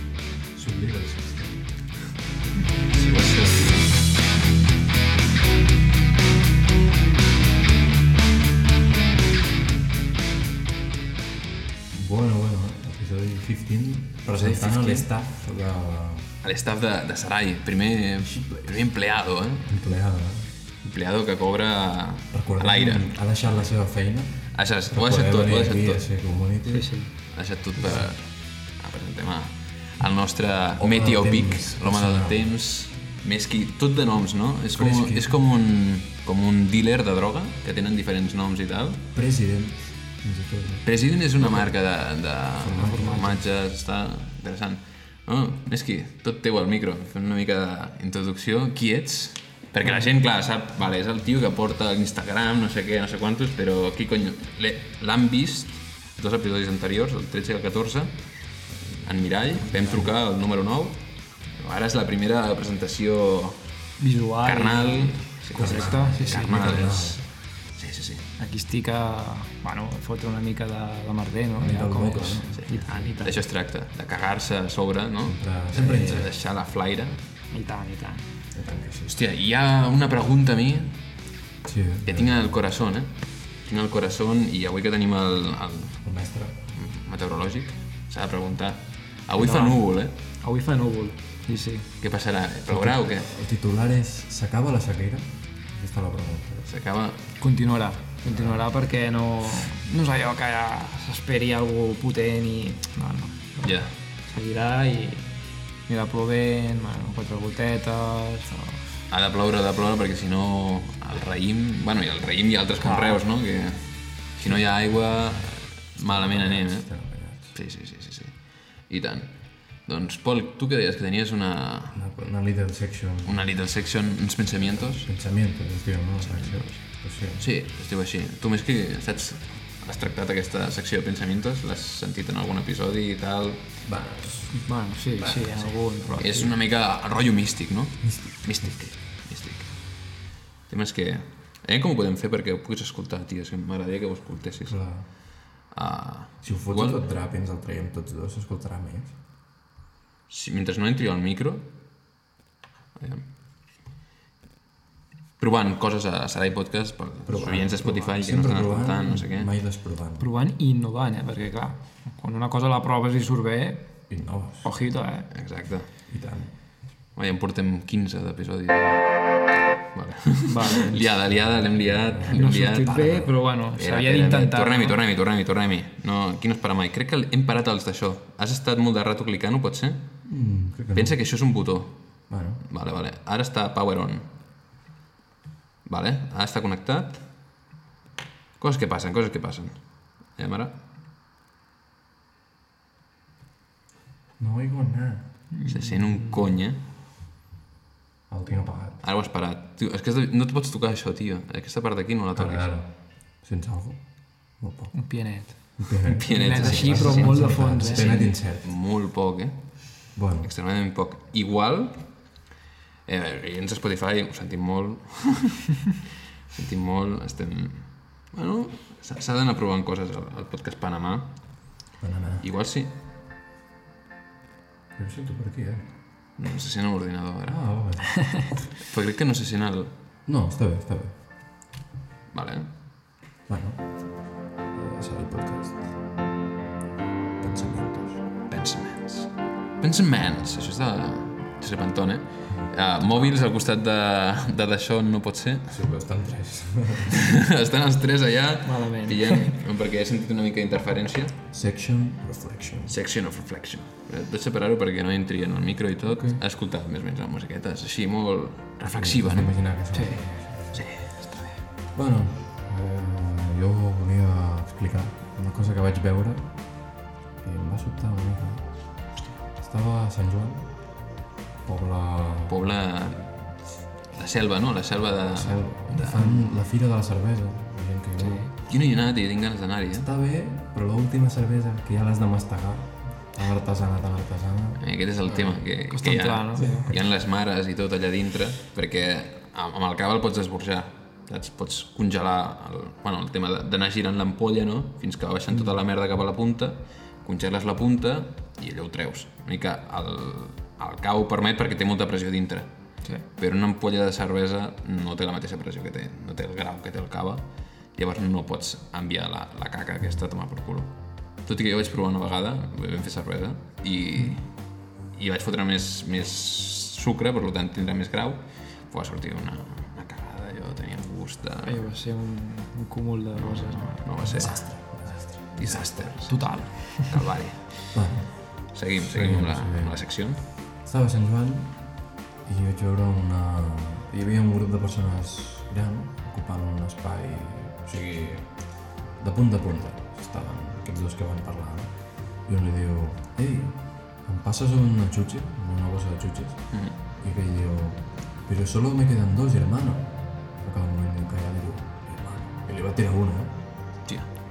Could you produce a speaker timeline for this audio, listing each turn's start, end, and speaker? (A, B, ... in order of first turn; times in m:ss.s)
0:00.5-0:01.7 A
0:03.0-0:03.9 B
0:03.3-0:03.7 A
0:11.9-0:16.3 A
0:14.3-0:15.1 B
0:16.4-0:19.8 B
0:18.2-0:18.9 A
0:19.6-0:20.5 A
0:20.8-0:23.3 B
0:22.3-0:27.0 A
0:24.5-0:26.0 B
0:26.6-0:27.1 C
0:27.3-0:39.0 B
0:27.8-0:28.1 A
0:30.8-0:32.5 A
0:34.7-0:35.4 A
0:39.1-0:41.8 A
0:40.8-0:58.1 B
0:42.5-0:43.4 A
0:42.8-0:43.3 C
0:58.7-1:00.1 A
0:59.0-1:01.0 B
1:01.6-1:03.6 B
1:04.0-1:06.9 C
1:04.4-1:08.2 B
1:05.5-1:07.2 A
1:08.4-1:13.5 C
1:11.6-1:12.6 A
1:12.5-1:17.2 B
1:15.2-1:16.3 A
1:17.5-1:18.2 C
1:18.5-1:19.1 A
1:19.1-1:20.9 B
1:21.6-1:22.6 A
1:22.0-1:26.0 B
1:26.0-1:26.6 A
1:26.7-1:30.1 B
1:29.3-1:29.8 C
1:30.4-1:31.9 C
1:32.0-1:33.3 B
1:32.7-1:36.7 A
1:36.6-1:37.2 B
1:37.4-1:45.3 C
1:38.2-1:38.7 A
1:43.6-1:43.9 B
1:45.8-1:48.9 C
1:49.1-2:02.0 B
1:52.7-1:53.2 C
1:54.4-1:57.5 A
2:01.9-2:03.6 A
2:03.2-2:05.1 B
2:04.6-2:07.4 A
2:06.2-2:13.6 B
2:13.8-2:16.3 A
2:14.5-2:16.5 C
2:16.2-2:20.1 B
2:18.0-2:18.8 A
2:20.7-2:27.1 B
2:24.6-2:25.1 A
2:26.4-2:29.2 A
2:30.3-2:31.7 B
2:33.0-2:33.2 B
2:35.4-2:39.5 B
2:37.2-2:40.3 A
2:40.2-2:43.9 C
2:44.1-2:44.7 A
2:44.6-2:45.3 C
2:45.3-2:45.9 B
2:46.1-2:46.5 A
2:47.1-3:00.0 B
2:50.4-2:51.1 C
2:50.9-2:53.3 A
2:52.3-2:55.0 C
3:00.2-3:01.2 A
3:00.9-3:04.3 B
3:02.3-3:02.6 A
3:05.8-3:07.2 B
3:08.6-3:10.7 B
3:14.4-3:15.2 A
3:15.5-3:16.6 C
3:15.6-3:16.8 B
3:18.3-3:19.0 A
3:19.0-3:22.7 B
3:22.3-3:24.9 A
3:24.9-3:28.1 C
3:25.5-3:28.7 A
3:26.2-3:32.4 B
3:30.1-3:30.5 A
3:33.0-3:35.9 B
3:36.5-3:41.7 B
3:42.0-3:42.4 A
3:42.4-3:42.9 B
3:44.9-3:45.9 A
3:46.4-3:48.0 B
3:47.4-3:48.6 A
3:48.8-3:49.9 B
3:50.2-3:51.2 A
3:52.3-3:52.7 B
3:53.5-3:56.0 A
3:57.4-3:58.2 A
3:58.5-4:05.8 B
4:05.7-4:07.3 A
4:07.2-4:11.4 B
4:08.6-4:09.6 C
4:11.5-4:13.0 A
4:12.9-4:19.6 B
4:16.0-4:16.4 A
4:18.9-4:20.9 A
4:19.9-4:20.2 C
4:20.7-4:21.5 B
4:21.9-4:28.8 A
4:29.6-4:31.0 A
4:31.6-4:32.6 A
4:32.5-4:33.5 B
4:34.1-4:36.4 B
4:35.2-4:38.5 A
4:38.2-4:38.5 C
4:38.6-4:40.1 B
4:39.9-4:45.7 A
4:44.8-5:02.7 B
4:45.9-4:46.9 C
4:46.6-4:47.0 A
5:03.4-5:21.8 B
5:21.6-5:24.4 C
5:23.3-5:28.0 B
5:24.2-5:26.1 A
5:26.2-5:27.2 C
5:27.9-5:53.6 A
5:28.7-5:30.4 B
5:46.7-5:47.0 B